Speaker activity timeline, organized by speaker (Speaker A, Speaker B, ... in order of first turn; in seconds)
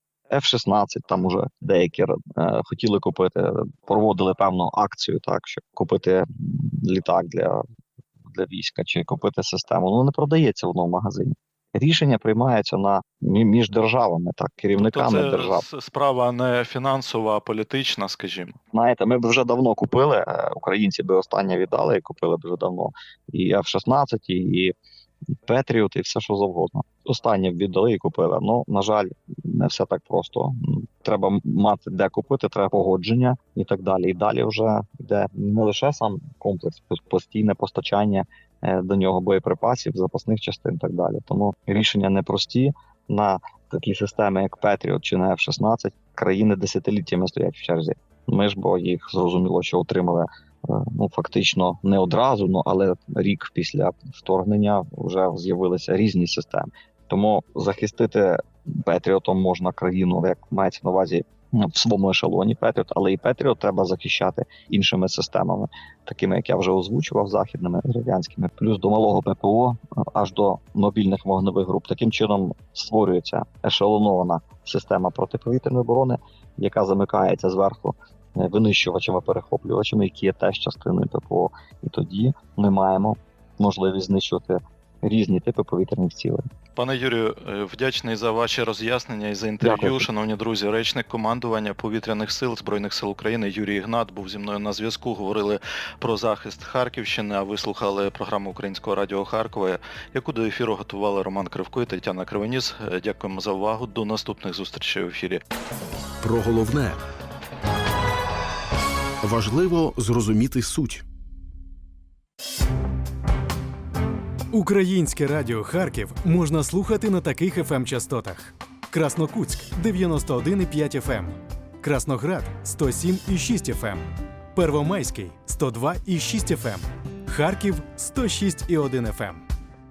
Speaker A: 0.3-7.6, 8.2-15.7, 18.7-24.7, 25.4-86.4, 89.6-90.0
Speaker B: 14.8-18.6, 86.7-105.4
Speaker C: 106.2-107.0, 109.2-111.0, 114.7-115.2, 115.8-118.0, 119.1-120.8, 123.4-123.8, 124.7-126.7, 127.5-129.0
Speaker D: 114.5-119.4, 120.0-124.0, 124.6-129.4